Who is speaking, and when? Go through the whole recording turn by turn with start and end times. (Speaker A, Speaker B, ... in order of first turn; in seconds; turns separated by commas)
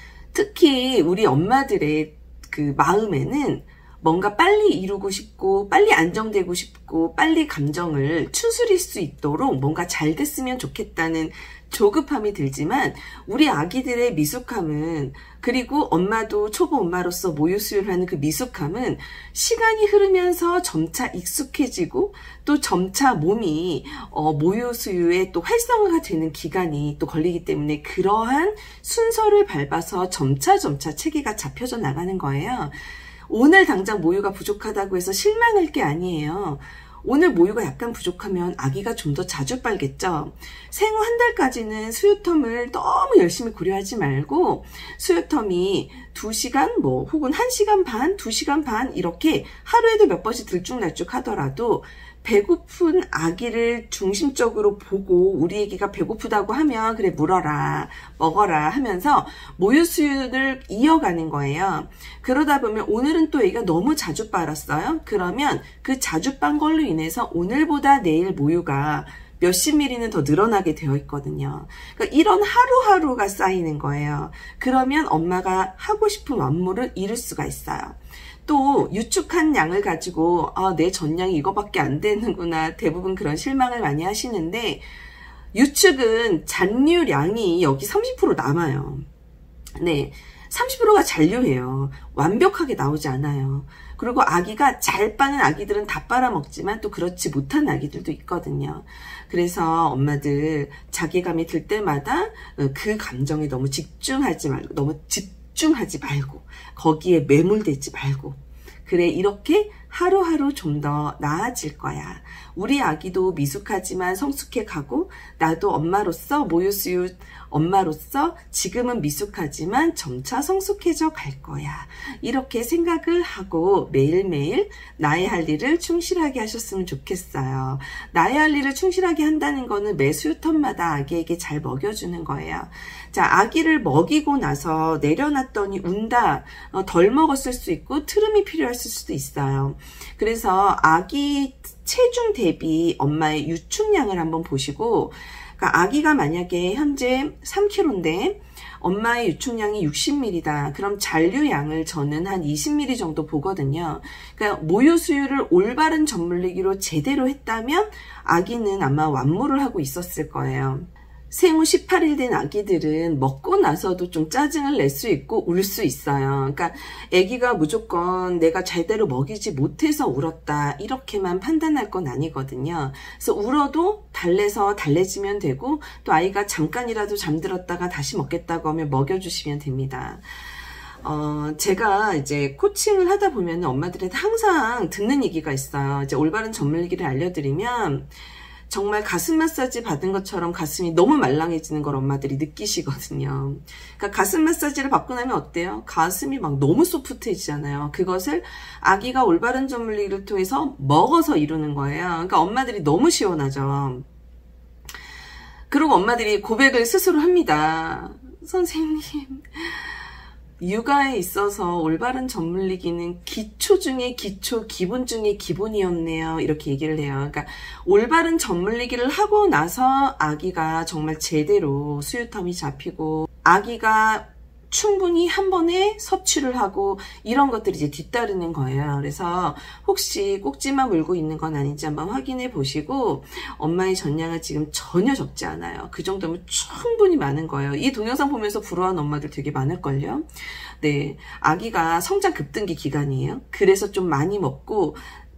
Speaker A: 0.3-84.8, Speaker A: 85.5-89.0, Speaker A: 89.8-180.2, Speaker A: 181.0-188.1, Speaker A: 188.7-204.1, Speaker A: 205.7-209.9, Speaker A: 210.6-245.0